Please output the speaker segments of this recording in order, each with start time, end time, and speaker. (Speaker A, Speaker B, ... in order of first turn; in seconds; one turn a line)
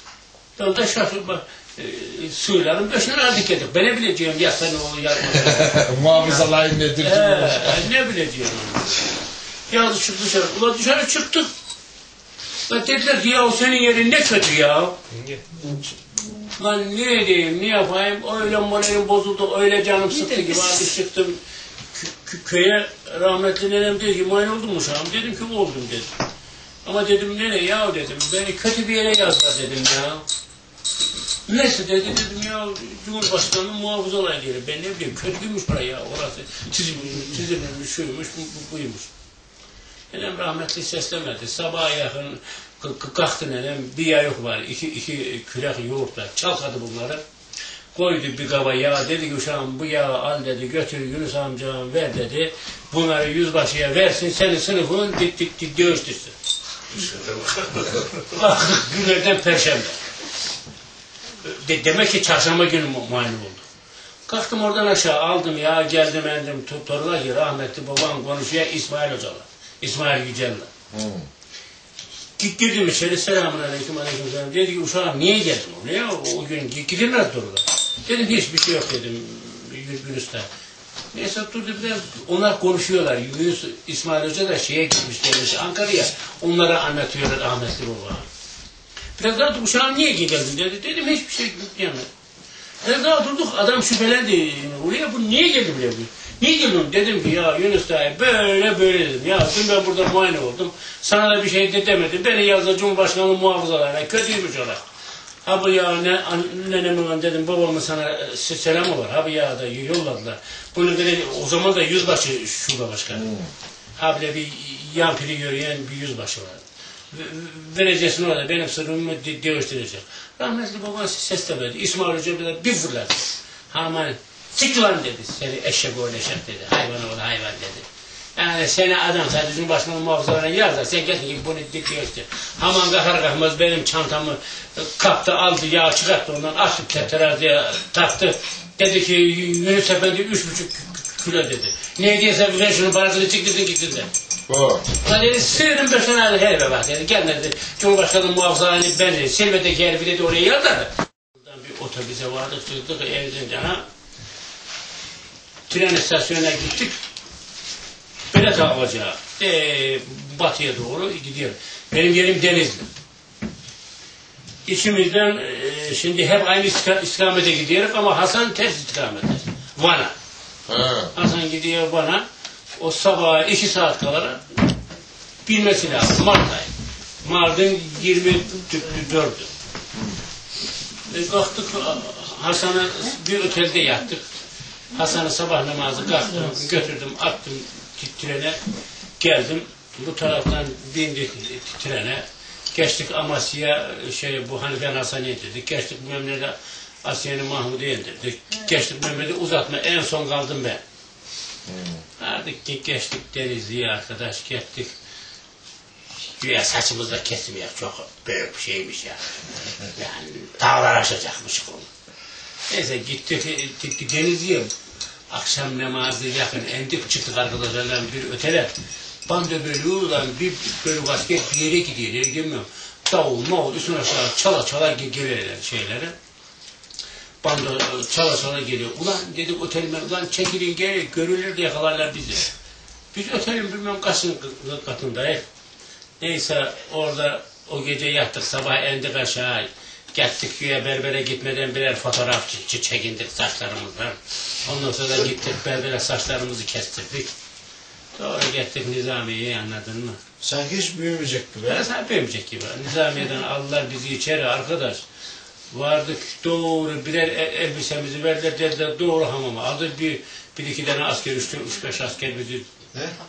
Speaker A: 0.6-6.4
Speaker B: 5.3-7.9
Speaker A: 7.0-9.1
Speaker A: 9.7-11.5
Speaker A: 12.7-15.0
Speaker A: 16.6-21.4
Speaker A: 21.9-26.1
Speaker A: 26.8-30.2
Speaker A: 31.5-39.1
Speaker A: 40.1-47.2
Speaker A: 47.9-56.3
Speaker A: 56.9-60.0
Speaker A: 61.4-63.6
Speaker A: 64.3-70.7
Speaker B: 70.9-71.3
Speaker A: 72.4-80.5
Speaker A: 81.1-88.3
Speaker A: 89.2-92.1
Speaker A: 92.8-104.8
Speaker A: 105.4-113.4
Speaker A: 114.0-127.8
Speaker A: 128.3-144.1
Speaker B: 144.5-144.8
Speaker A: 144.9-153.9
Speaker A: 155.7-156.9
Speaker A: 158.3-162.9
Speaker A: 164.7-170.1
Speaker B: 170.7-171.1
Speaker A: 171.1-172.2
Speaker A: 172.8-174.4
Speaker A: 175.4-176.7
Speaker A: 177.2-179.5
Speaker A: 181.1-184.2
Speaker A: 184.9-188.6
Speaker A: 189.2-200.8
Speaker B: 201.7-202.0
Speaker A: 202.2-204.9
Speaker A: 206.4-211.9
Speaker A: 212.7-214.7
Speaker A: 215.3-218.7
Speaker A: 219.3-226.1
Speaker A: 227.4-232.5
Speaker A: 233.1-235.4
Speaker A: 236.2-247.3
Speaker A: 248.1-250.2
Speaker B: 250.4-251.8
Speaker A: 251.6-255.0
Speaker A: 255.7-262.7